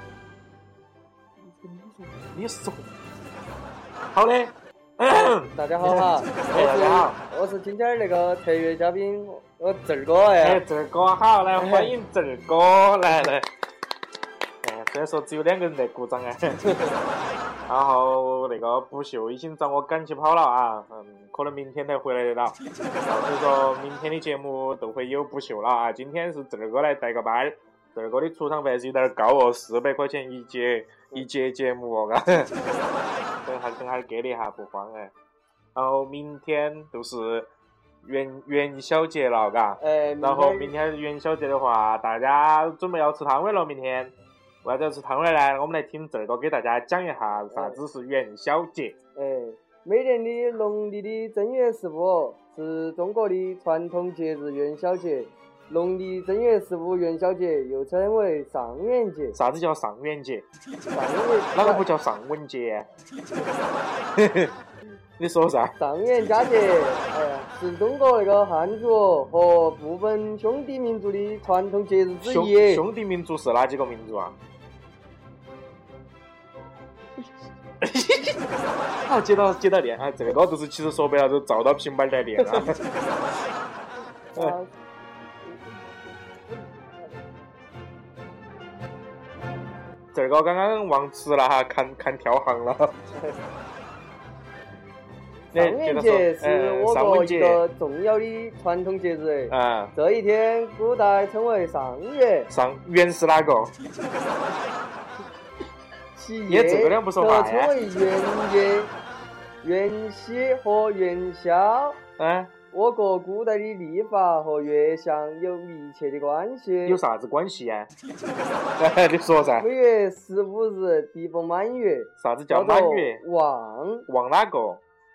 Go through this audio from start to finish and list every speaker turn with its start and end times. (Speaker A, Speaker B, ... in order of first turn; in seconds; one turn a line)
Speaker A: 2.3-2.8
Speaker A: 4.1-7.2
Speaker B: 5.5-10.6
Speaker A: 10.4-13.5
Speaker B: 11.6-11.9
Speaker A: 14.6-16.6
Speaker B: 16.6-16.9
Speaker A: 17.7-32.5
Speaker B: 32.5-33.2
Speaker A: 33.4-35.1
Speaker A: 35.7-37.5
Speaker A: 38.0-49.0
Speaker B: 39.8-40.7
Speaker B: 47.5-47.8
Speaker B: 49.1-59.4
Speaker A: 59.3-60.5
Speaker B: 60.9-61.8
Speaker A: 61.5-62.9
Speaker A: 64.2-64.5
Speaker A: 65.2-65.7
Speaker B: 65.8-72.8
Speaker A: 72.2-74.3
Speaker A: 77.8-78.4
Speaker A: 79.0-82.8
Speaker B: 82.4-82.7
Speaker B: 84.3-84.7
Speaker A: 90.1-92.9
Speaker A: 95.5-97.6
Speaker B: 95.5-102.5
Speaker A: 99.5-99.9
Speaker A: 102.5-103.7
Speaker B: 106.1-108.9
Speaker A: 106.5-107.7
Speaker B: 109.6-112.0
Speaker A: 112.2-112.5
Speaker B: 112.7-117.0
Speaker A: 116.8-117.9
Speaker A: 118.8-119.7
Speaker B: 119.4-124.1
Speaker A: 122.2-123.2
Speaker A: 124.1-124.8